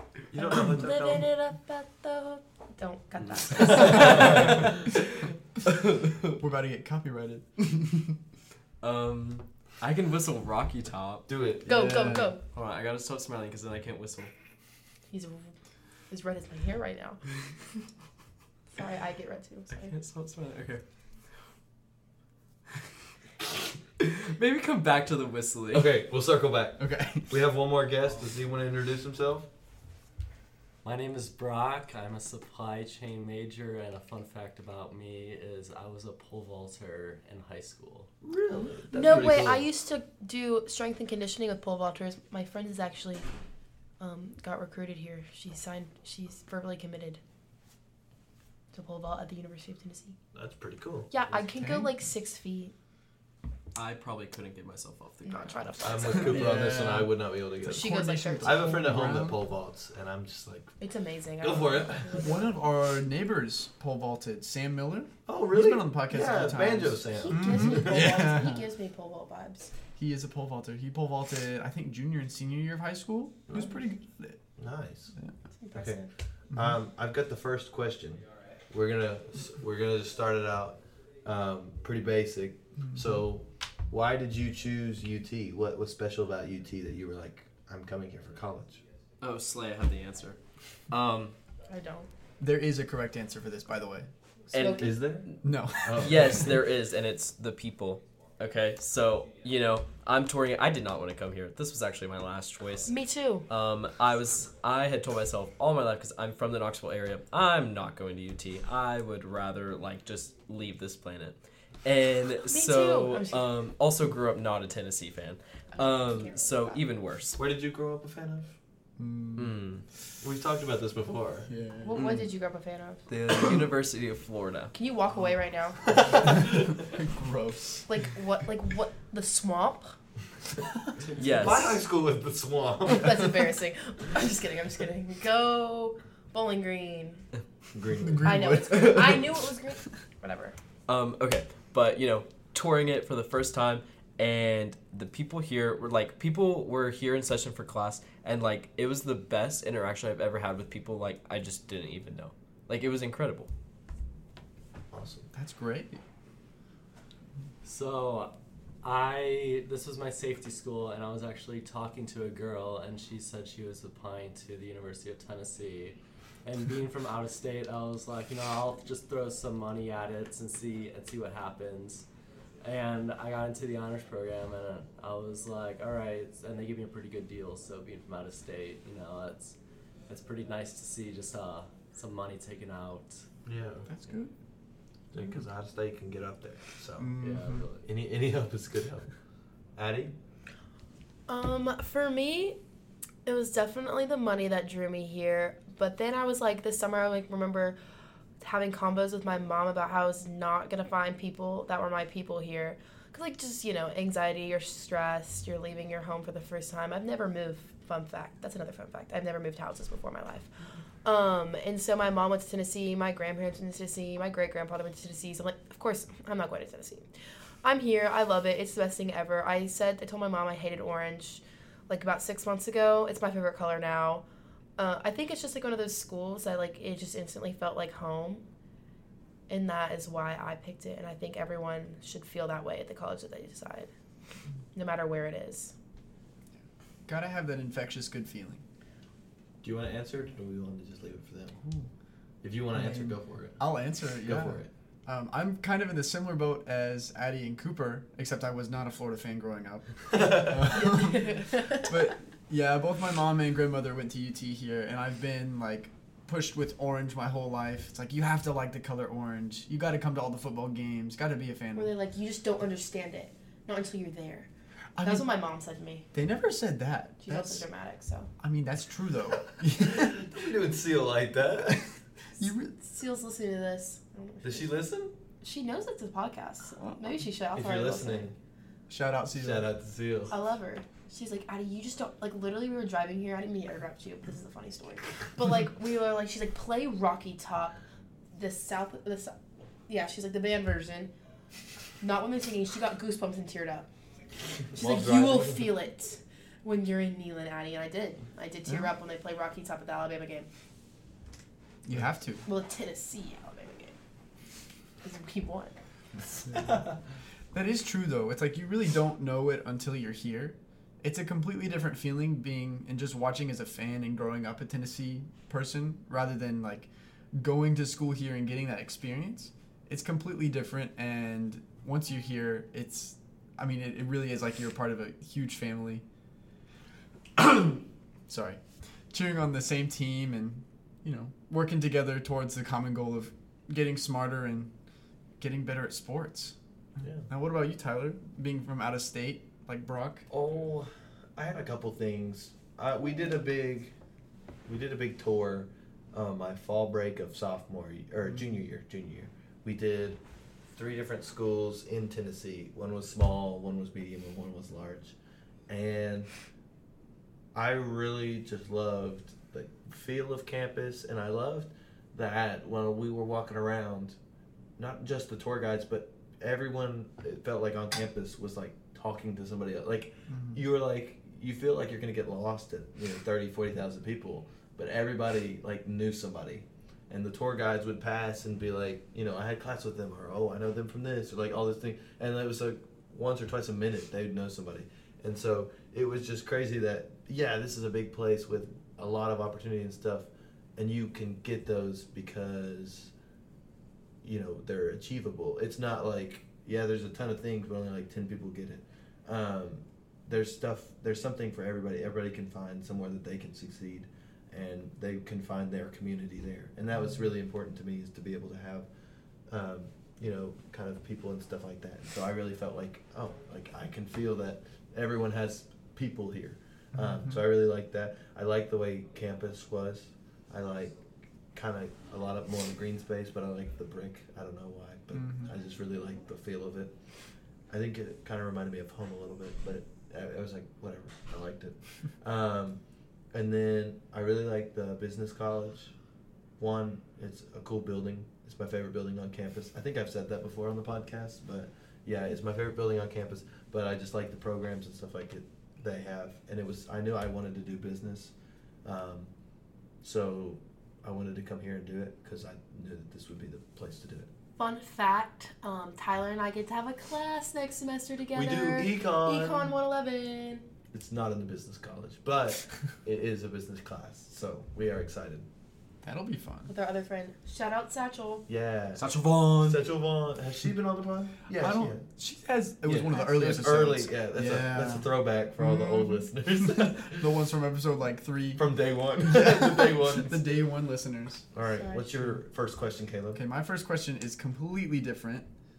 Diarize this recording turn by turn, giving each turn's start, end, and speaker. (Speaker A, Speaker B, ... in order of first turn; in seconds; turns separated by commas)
Speaker A: 0.3-1.3, Speaker B: 0.4-4.6, Speaker C: 3.5-5.0, Speaker A: 3.9-4.7, Speaker C: 5.8-6.3, Speaker D: 6.3-8.2, Speaker C: 8.8-11.3, Speaker A: 11.3-12.1, Speaker B: 11.7-12.4, Speaker D: 11.7-12.3, Speaker C: 12.5-14.3, Speaker B: 15.1-15.5, Speaker B: 16.1-17.2, Speaker B: 18.7-19.9, Speaker C: 19.7-20.8, Speaker C: 24.0-26.0, Speaker A: 25.7-29.5, Speaker D: 26.8-27.4, Speaker E: 30.8-38.1, Speaker A: 38.2-39.7, Speaker B: 38.9-43.3, Speaker B: 44.0-47.2, Speaker B: 48.7-50.2, Speaker A: 50.3-51.1, Speaker B: 51.1-52.7, Speaker D: 51.5-51.9, Speaker C: 53.8-56.2, Speaker B: 55.2-56.3, Speaker A: 55.8-60.7, Speaker D: 56.2-59.4, Speaker B: 57.7-58.8, Speaker B: 60.8-62.4, Speaker A: 61.4-62.4, Speaker D: 62.2-68.7, Speaker A: 65.3-68.1, Speaker B: 67.1-69.7, Speaker D: 70.0-74.4, Speaker A: 74.6-75.1, Speaker B: 75.6-76.1, Speaker A: 75.7-88.8, Speaker D: 76.5-76.8, Speaker D: 82.8-83.1, Speaker C: 89.2-90.4, Speaker C: 90.9-91.3, Speaker B: 91.7-92.1, Speaker D: 92.4-94.1, Speaker C: 94.5-95.4, Speaker B: 94.5-95.0, Speaker A: 94.7-96.6, Speaker D: 95.4-96.3, Speaker C: 96.0-102.9, Speaker B: 102.9-103.5, Speaker C: 103.5-117.4, Speaker B: 112.5-113.5, Speaker B: 115.8-116.8, Speaker A: 117.4-118.5, Speaker D: 119.0-119.7, Speaker C: 119.4-119.8, Speaker A: 120.2-121.5, Speaker D: 121.5-122.0, Speaker B: 121.8-123.0, Speaker C: 122.0-122.3, Speaker C: 123.1-124.7, Speaker B: 124.7-126.0, Speaker A: 125.9-126.8, Speaker D: 126.3-127.9, Speaker B: 127.9-129.9, Speaker E: 131.1-131.8, Speaker C: 131.2-131.8, Speaker A: 131.3-133.4, Speaker B: 132.9-137.2, Speaker A: 137.7-138.5, Speaker D: 138.0-139.4, Speaker B: 138.2-140.6, Speaker C: 140.9-153.5, Speaker A: 154.9-155.3, Speaker D: 155.3-156.0, Speaker E: 157.6-172.1, Speaker E: 172.6-179.6, Speaker E: 180.1-183.2, Speaker A: 183.4-183.9, Speaker D: 183.9-184.3, Speaker A: 185.1-187.2, Speaker D: 187.0-187.7, Speaker E: 187.2-187.8, Speaker A: 187.8-189.1, Speaker A: 189.8-190.2, Speaker B: 191.3-192.6, Speaker B: 193.3-197.8, Speaker B: 198.4-210.5, Speaker B: 211.0-217.1, Speaker B: 217.6-224.2, Speaker B: 224.8-228.4, Speaker B: 229.5-233.9, Speaker B: 234.7-235.7, Speaker D: 237.1-238.6, Speaker A: 239.6-241.6, Speaker D: 241.6-241.9, Speaker A: 242.4-243.7, Speaker D: 242.7-261.9, Speaker A: 244.2-244.7, Speaker A: 250.1-250.6, Speaker B: 250.7-252.1, Speaker B: 261.8-264.5, Speaker D: 265.0-265.3, Speaker B: 265.0-266.1, Speaker D: 266.1-267.7, Speaker B: 267.2-268.3, Speaker D: 268.4-270.3, Speaker A: 269.8-271.8, Speaker D: 272.4-272.8, Speaker B: 272.8-274.7, Speaker A: 274.4-275.1, Speaker B: 275.4-278.3, Speaker D: 276.8-277.2, Speaker A: 277.6-278.4, Speaker D: 278.9-279.7, Speaker A: 279.3-280.4, Speaker B: 280.3-287.8, Speaker B: 288.3-289.4, Speaker B: 289.9-291.1, Speaker B: 292.0-293.9, Speaker B: 294.7-300.5, Speaker A: 294.7-295.7, Speaker D: 301.9-302.4, Speaker B: 302.4-304.0, Speaker B: 305.0-305.8, Speaker D: 307.5-326.0, Speaker D: 327.4-328.6, Speaker D: 329.1-334.7, Speaker D: 335.4-336.6, Speaker A: 337.0-337.3, Speaker D: 337.3-340.3, Speaker A: 340.3-343.9, Speaker A: 344.7-350.2, Speaker A: 350.7-355.1, Speaker A: 355.7-356.3, Speaker A: 357.5-364.2, Speaker A: 364.8-393.1, Speaker D: 370.3-370.6, Speaker A: 394.2-408.9, Speaker A: 409.5-420.9, Speaker D: 417.0-417.4, Speaker A: 421.5-426.9, Speaker D: 425.1-425.5, Speaker A: 427.7-432.8, Speaker A: 433.3-435.9, Speaker A: 436.6-448.3, Speaker A: 448.9-449.3, Speaker A: 450.0-454.3, Speaker B: 454.6-460.7, Speaker A: 458.3-459.8, Speaker A: 460.9-465.5, Speaker D: 466.0-466.7, Speaker B: 466.7-468.5, Speaker A: 468.5-469.0, Speaker D: 469.0-469.8, Speaker A: 469.6-472.1, Speaker D: 471.5-481.5, Speaker A: 472.9-477.3, Speaker A: 478.6-480.4, Speaker A: 481.5-483.4, Speaker B: 481.7-482.1, Speaker D: 483.3-485.5